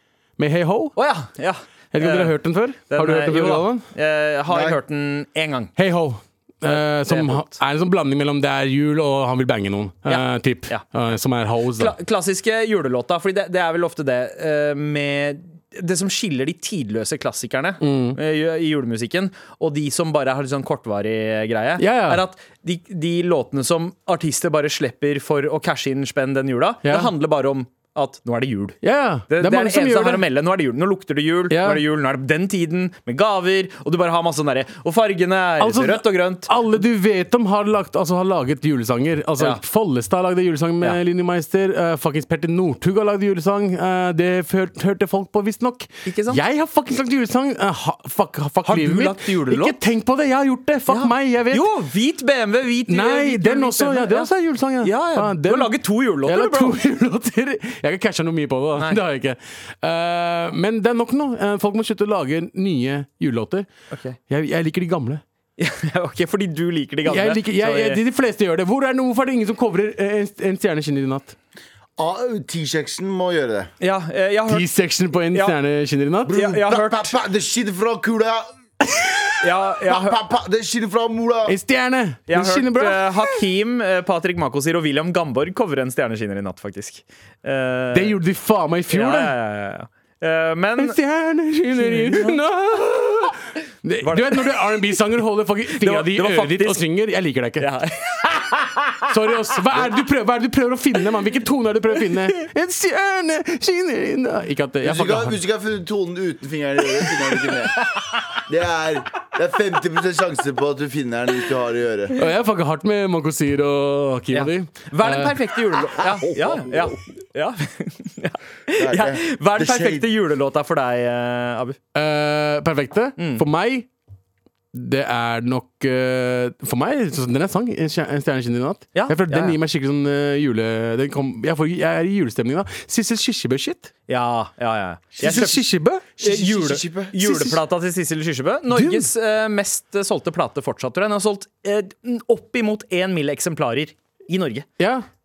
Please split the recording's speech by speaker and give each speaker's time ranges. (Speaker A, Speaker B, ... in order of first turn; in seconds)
Speaker A: 0.4-1.0, 1.9-3.9, 5.8-11.9, 17.8-18.2, 21.8-22.2, 26.9-27.1, 28.8-30.2, 31.5-31.8, 35.6-51.7, 52.9-63.7, 64.3-65.2, 67.1-71.4, 74.5-76.5, 81.5-83.5, 87.9-89.3, 90.8-97.7, 99.0-105.4, 112.2-115.4, 121.9-123.9, 124.7-133.9, 135.2-136.0, 137.2-137.5, 138.7-139.1, 144.8-145.1
Speaker B: 1.0-2.3, 2.9-5.7, 7.1-7.6, 10.1-10.8, 11.8-28.8, 29.3-36.5, 46.0-46.4, 48.7-49.8, 50.9-54.3, 54.8-56.8, 63.9-64.2, 65.6-68.0, 73.8-74.7, 76.3-77.2, 79.4-80.2, 82.3-88.2, 88.9-91.0, 91.8-92.4, 94.0-94.6, 95.8-96.8, 97.6-99.0, 107.8-108.4, 114.3-121.8, 123.2-123.4, 128.9-129.6, 134.1-135.6, 136.2-144.7
Speaker C: 4.5-4.8, 72.0-73.7, 76.3-78.5, 79.8-81.6, 104.8-107.8, 108.4-112.2, 116.2-116.7, 118.8-120.1, 135.2-135.6, 136.2-137.2